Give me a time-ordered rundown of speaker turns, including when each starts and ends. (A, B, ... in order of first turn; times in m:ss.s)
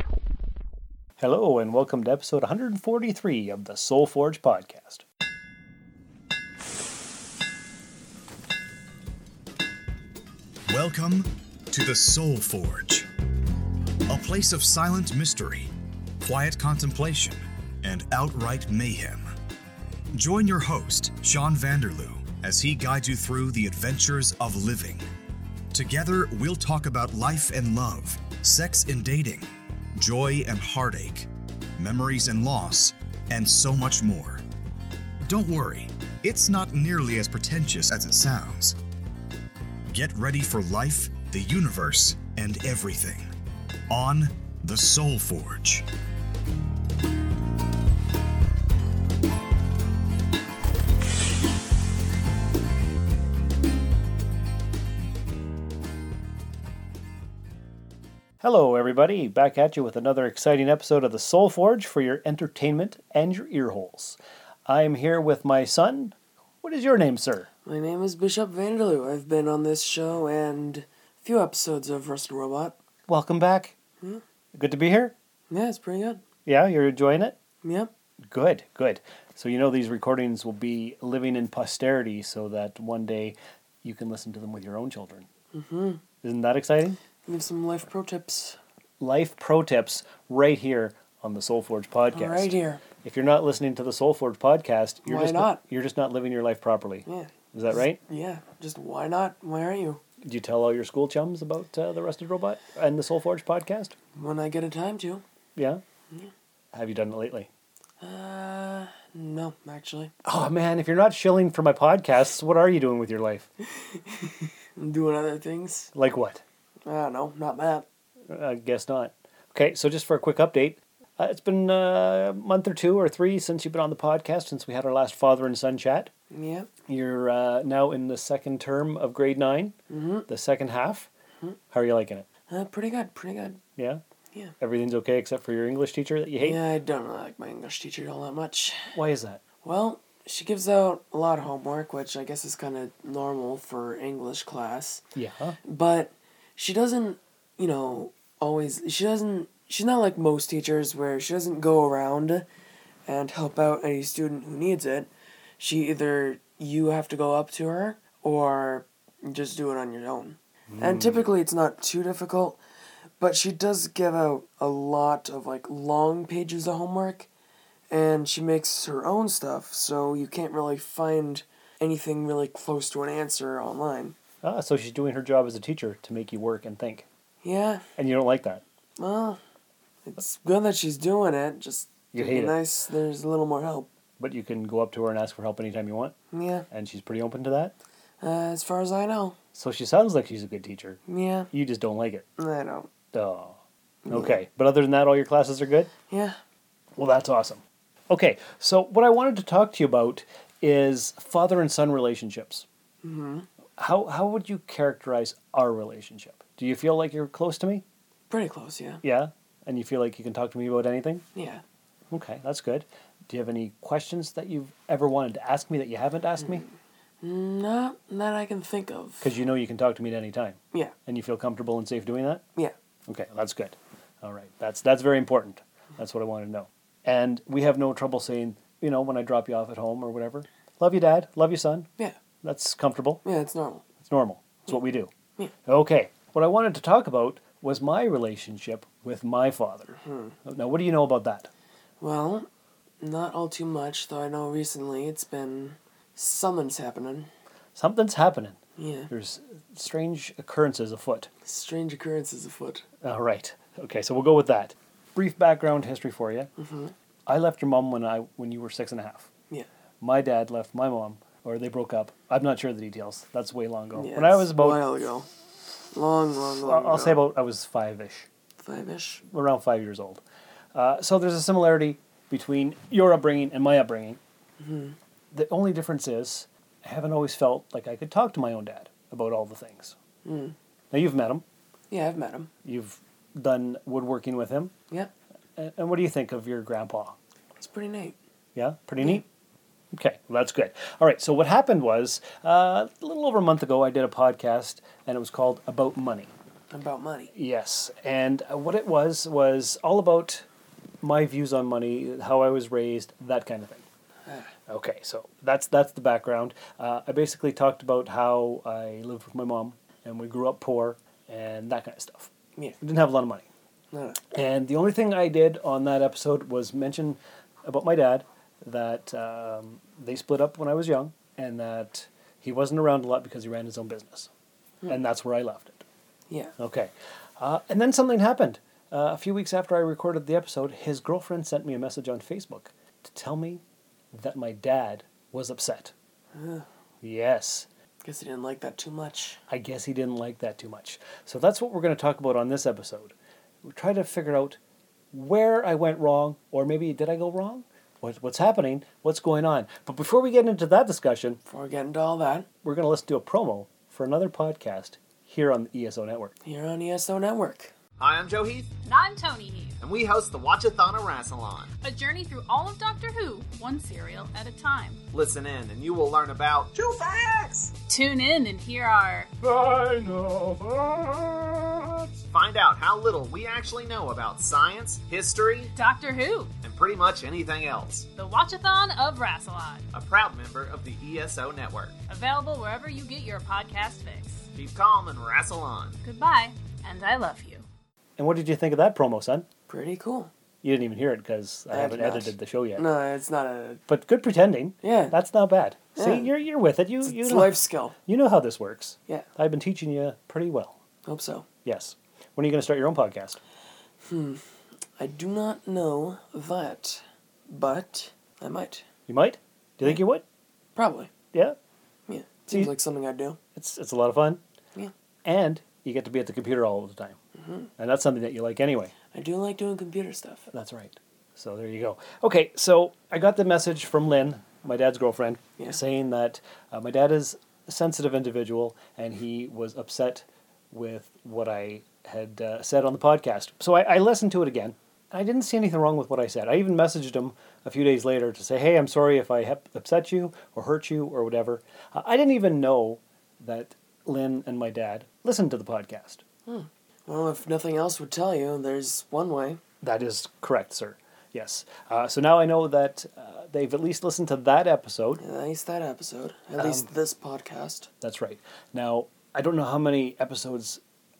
0:01.2-0:05.0 A
0:10.7-0:13.1 B
0:14.1-0:19.3 B
0:20.1-0:25.0 B
0:25.7-0:34.4 B
0:35.2-0:38.8 B
0:39.9-0:43.3 B
0:43.9-0:45.8 B
0:58.4-1:07.5 A
1:07.6-1:12.7 C
1:13.1-1:13.8 A
1:14.5-1:15.1 A
1:15.5-1:16.2 C
1:16.4-1:17.4 A
1:17.6-1:17.9 C
1:18.2-1:25.3 A
1:25.5-1:26.0 C
1:26.2-1:27.0 A
1:27.2-1:28.6 C
1:29.0-1:38.0 A
1:32.1-1:32.8 C
1:35.0-1:35.6 C
1:37.0-1:40.0 C
1:40.2-1:43.9 A
1:44.1-1:45.2 C
1:45.6-1:45.8 A
1:46.7-1:47.5 A
1:48.0-1:50.1 C
1:50.2-1:53.5 A
1:53.8-1:55.9 C
1:55.9-1:56.4 A
1:56.8-1:57.8 C
1:58.3-2:06.1 A
2:06.3-2:06.7 C
2:06.9-2:09.8 A
2:09.9-2:10.3 C
2:10.3-2:11.1 A
2:11.7-2:12.2 A
2:12.5-2:13.6 C
2:13.8-2:14.0 A
2:14.6-2:16.6 A
2:16.4-2:18.9 C
2:18.9-2:19.4 A
2:19.6-2:25.0 C
2:25.1-2:25.6 A
2:25.6-2:32.4 C
2:33.0-2:42.6 C
2:40.7-2:41.2 A
2:43.2-2:47.3 C
2:47.9-2:54.2 C
2:54.4-2:57.0 A
2:57.4-2:57.9 C
2:58.0-2:58.6 A
2:59.0-2:59.4 C
3:00.0-3:03.9 C
3:02.1-3:02.6 A
3:04.2-3:06.1 A
3:06.3-3:06.6 C
3:06.7-3:07.7 A
3:08.2-3:09.4 C
3:09.5-3:11.0 A
3:11.1-3:11.5 C
3:11.5-3:12.3 A
3:12.4-3:12.9 C
3:13.1-3:15.9 A
3:14.0-3:14.4 C
3:16.1-3:16.4 C
3:17.0-3:22.6 A
3:23.0-3:23.5 C
3:23.8-3:27.8 A
3:28.3-3:29.0 C
3:29.0-3:31.2 A
3:31.3-3:31.6 C
3:32.1-3:36.6 A
3:37.2-3:39.3 C
3:39.2-3:42.4 A
3:43.1-3:51.9 A
3:52.4-3:53.2 A
3:53.2-3:53.8 C
3:54.0-3:55.1 A
3:55.6-4:01.5 A
4:00.0-4:00.3 C
4:02.0-4:02.5 C
4:03.0-4:07.3 C
4:07.8-4:08.6 A
4:08.8-4:09.1 C
4:09.1-4:11.3 A
4:11.4-4:12.8 C
4:13.0-4:16.5 A
4:16.6-4:16.9 C
4:17.3-4:19.3 A
4:20.0-4:24.8 A
4:23.9-4:25.3 C
4:25.9-4:27.2 C
4:26.6-4:28.3 A
4:28.6-4:29.2 C
4:29.3-4:30.2 A
4:30.7-4:34.2 A
4:34.6-4:35.0 C
4:35.3-4:40.0 A
4:40.2-4:40.5 C
4:40.9-4:41.4 A
4:41.9-4:42.5 C
4:42.6-4:44.7 A
4:45.6-4:47.2 A
4:47.6-4:48.2 C
4:48.5-4:49.2 A
4:49.9-4:56.3 A
4:56.7-4:57.3 C
4:57.3-5:00.4 A
5:01.0-5:03.8 A
5:04.3-5:04.5 C
5:04.7-5:13.5 A
5:13.9-5:14.2 C
5:14.3-5:24.3 A
5:24.9-5:25.8 A
5:26.6-5:35.9 A
5:36.3-5:36.6 C
5:37.0-5:37.7 A
5:38.0-5:39.4 C
5:39.5-5:44.6 A
5:45.1-5:51.4 A
5:51.4-5:52.5 C
5:52.6-5:56.3 A
5:56.4-5:57.7 C
5:58.0-5:58.7 D
5:58.8-5:59.8 E
5:59.8-6:01.7 D
6:01.8-6:05.0 E
6:05.1-6:07.7 D
6:07.9-6:09.3 E
6:09.6-6:11.2 A
6:12.3-6:15.7 D
6:15.7-6:16.5 E
6:16.6-6:18.1 D
6:18.1-6:19.9 E
6:19.9-6:22.0 D
6:22.1-6:24.4 E
6:24.5-6:26.0 D
6:26.0-6:27.6 E
6:28.2-6:29.5 A
6:29.7-6:30.3 C
6:30.6-6:32.8 A
6:31.7-6:33.8 C
6:33.9-6:40.8 A
6:34.8-6:35.1 C
6:36.0-6:36.3 C
6:37.0-6:38.0 C
6:41.0-6:41.4 C
6:41.6-6:43.4 A
6:44.0-6:44.4 C
6:45.0-6:48.8 C
6:49.1-6:50.2 A
6:50.8-6:51.1 C
6:52.1-6:53.4 C
6:53.5-6:54.4 A
6:55.2-6:57.2 A
6:57.4-6:57.7 C
6:57.8-6:58.9 A
6:59.1-7:00.5 C
7:00.5-7:26.2 A
7:26.5-7:29.6 C
7:29.8-7:35.2 A
7:35.2-7:37.9 C
7:36.6-7:36.9 A
7:38.0-7:40.8 A